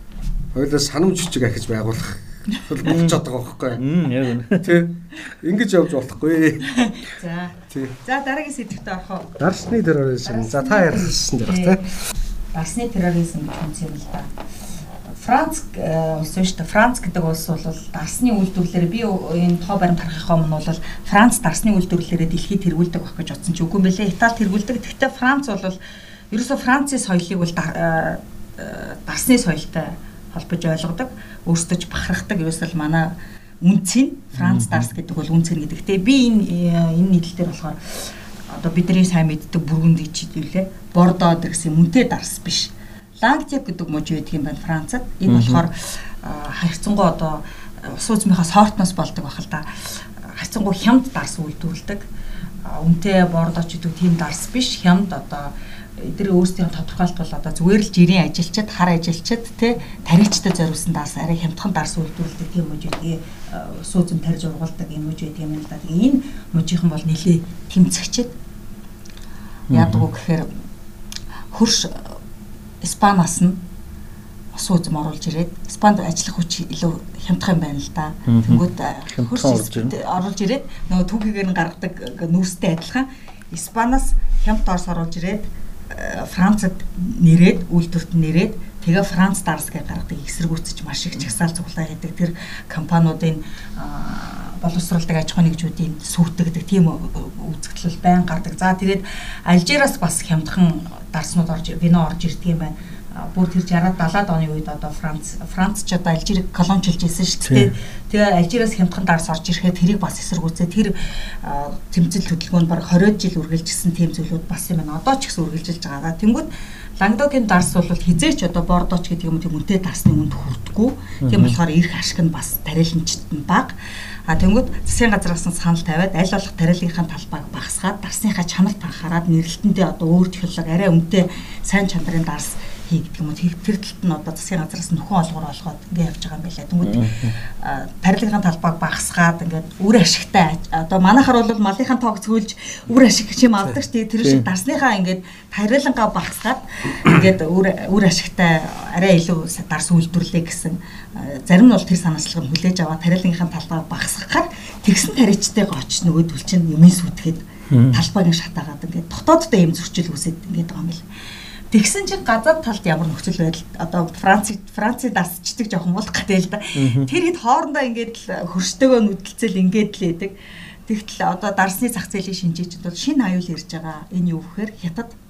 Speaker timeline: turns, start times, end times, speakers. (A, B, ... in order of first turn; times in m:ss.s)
0:00.5-0:03.8 A
0:02.8-0:03.2 B
0:03.8-0:04.8 B
0:04.6-0:06.6 A
0:06.6-0:09.3 C
0:07.7-0:08.0 A
0:09.4-0:11.9 A
0:10.2-0:11.8 C
0:12.5-0:14.3 C
0:15.1-0:25.8 C
0:26.3-0:52.1 C
0:34.4-0:34.9 B
0:45.3-0:45.6 B
0:52.6-1:08.3 C
1:09.7-1:10.1 B
1:09.7-1:10.5 C
1:11.5-1:12.2 C
1:12.8-1:13.6 C
1:14.5-2:03.8 C
1:18.3-1:19.9 B
1:47.5-1:47.7 B
2:01.2-2:01.6 B
2:04.3-2:41.0 C
2:16.8-2:17.4 B
2:37.7-2:38.0 B
2:41.7-2:50.3 C
2:46.8-2:47.1 B
2:50.9-2:55.2 C